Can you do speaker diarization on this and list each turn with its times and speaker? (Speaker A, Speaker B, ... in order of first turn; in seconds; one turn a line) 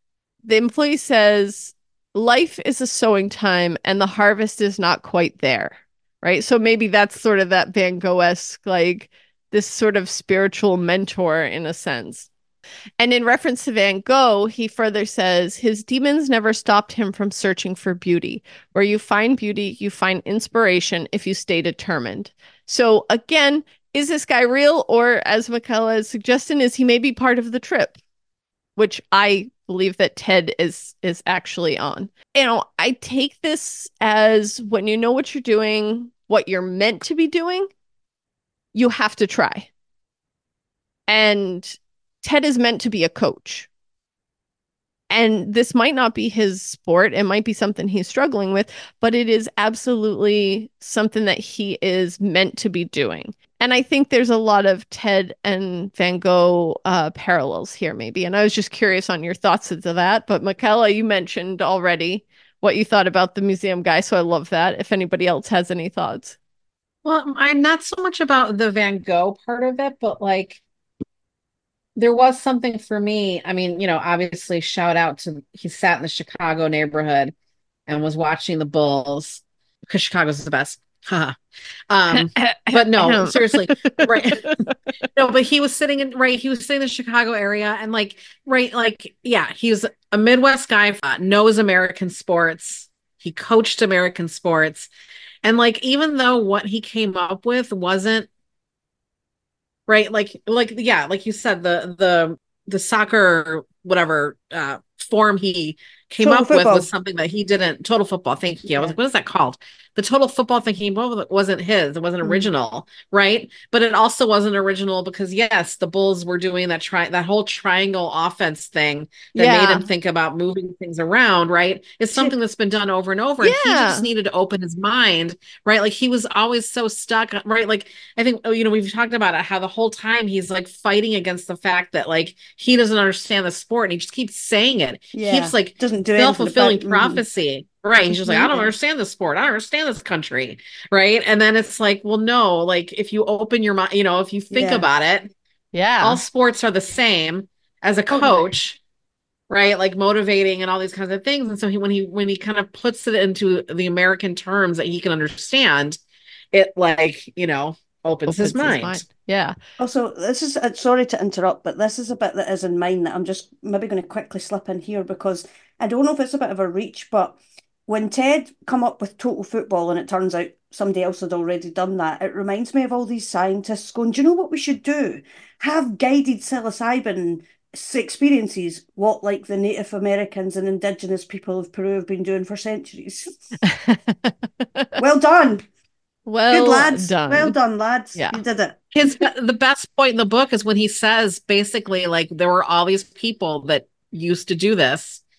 Speaker A: 0.4-12.3
Speaker A: 13.0-28.0
Speaker A: 28.8-37.7
Speaker A: 38.7-39.7
Speaker A: 41.1-43.7
Speaker A: 45.1-66.4
Speaker B: 67.0-70.6
Speaker B: 72.0-77.3
Speaker B: 77.9-81.3
Speaker B: 81.9-84.5
Speaker A: 82.1-84.5
Speaker B: 85.1-94.9
Speaker B: 95.4-98.3
Speaker B: 99.9-145.3
Speaker C: 106.2-106.9
Speaker A: 119.3-119.9
Speaker A: 123.4-124.1
Speaker C: 135.1-137.2
Speaker C: 138.2-138.7
Speaker C: 144.5-144.9
Speaker A: 145.7-146.2
Speaker B: 146.0-148.8
Speaker C: 148.1-148.5
Speaker B: 149.5-156.0
Speaker B: 156.5-159.0
Speaker A: 158.3-159.6
Speaker C: 159.8-183.5
Speaker A: 183.6-185.0
Speaker C: 185.0-185.6
Speaker A: 186.3-187.6
Speaker C: 186.5-188.8
Speaker A: 188.1-188.4
Speaker B: 188.9-195.2